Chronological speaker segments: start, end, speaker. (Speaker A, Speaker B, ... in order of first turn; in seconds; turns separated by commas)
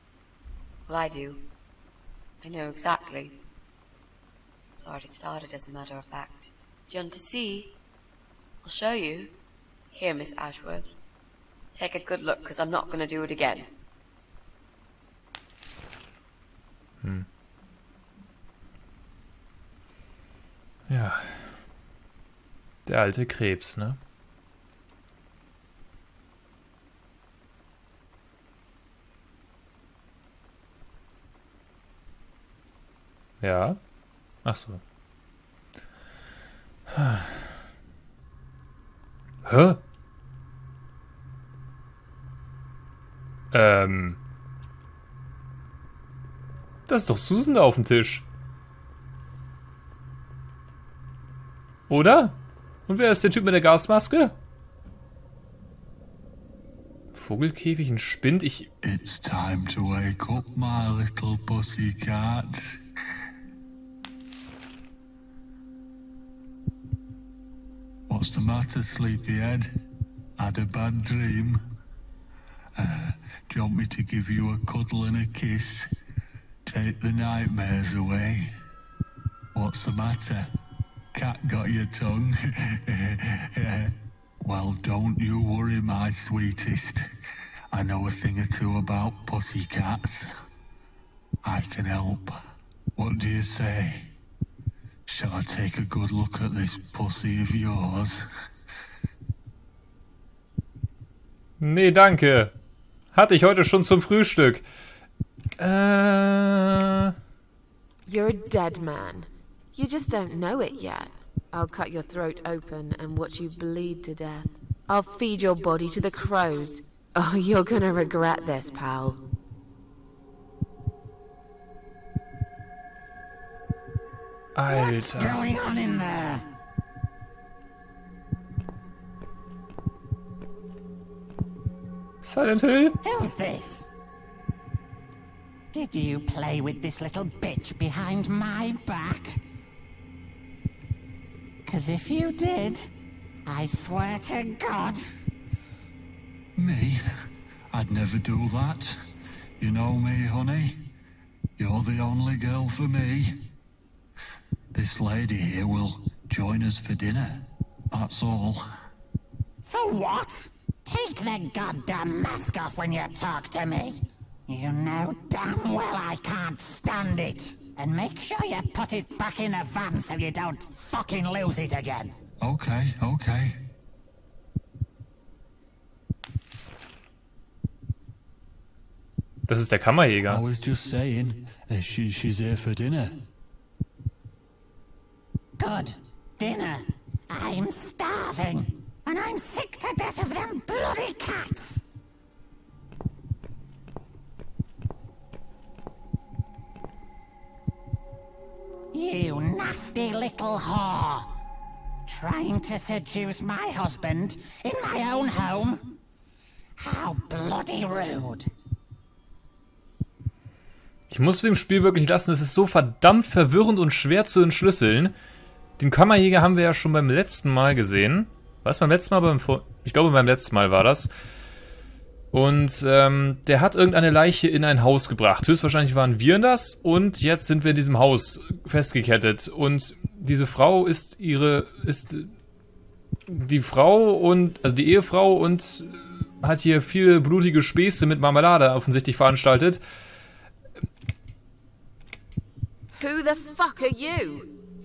Speaker A: 0.9-1.5, Speaker A: 2.4-3.4, Speaker A: 4.8-7.8, Speaker A: 8.6-9.3, Speaker A: 9.9-10.9, Speaker A: 11.8-13.7, Speaker B: 17.0-17.3, Speaker B: 20.9-21.5, Speaker B: 22.9-24.0, Speaker B: 33.4-33.8, Speaker B: 34.5-34.8, Speaker B: 36.9-37.3, Speaker B: 39.5-39.8, Speaker B: 43.5-44.2, Speaker B: 46.9-48.3, Speaker B: 51.9-54.4, Speaker B: 57.1-58.7, Speaker C: 58.8-62.6, Speaker C: 68.1-69.7, Speaker C: 70.4-71.6, Speaker C: 72.8-75.9, Speaker C: 76.7-78.5, Speaker C: 79.5-80.5, Speaker C: 81.1-87.0, Speaker C: 87.7-90.3, Speaker C: 91.4-92.4, Speaker C: 93.0-94.1, Speaker C: 95.1-98.2, Speaker B: 101.6-102.5, Speaker B: 103.1-104.6, Speaker B: 105.6-107.1, Speaker D: 108.1-119.2, Speaker B: 124.5-125.5, Speaker E: 125.2-126.4, Speaker B: 132.2-133.0, Speaker E: 133.2-133.9, Speaker E: 135.7-139.3, Speaker E: 141.7-142.8, Speaker E: 143.5-145.0, Speaker C: 146.6-147.0, Speaker C: 147.7-149.0, Speaker C: 149.6-150.9, Speaker C: 151.6-153.4, Speaker C: 154.7-158.6, Speaker E: 159.7-163.9, Speaker E: 164.5-172.1, Speaker C: 172.4-173.6, Speaker B: 179.5-180.4, Speaker C: 180.3-183.2, Speaker E: 185.6-191.8, Speaker E: 198.9-201.3, Speaker E: 202.1-205.8, Speaker E: 206.8-208.5, Speaker B: 211.1-215.2, Speaker B: 215.8-221.1, Speaker B: 222.3-232.3, Speaker B: 233.3-239.8, Speaker D: 242.9-244.5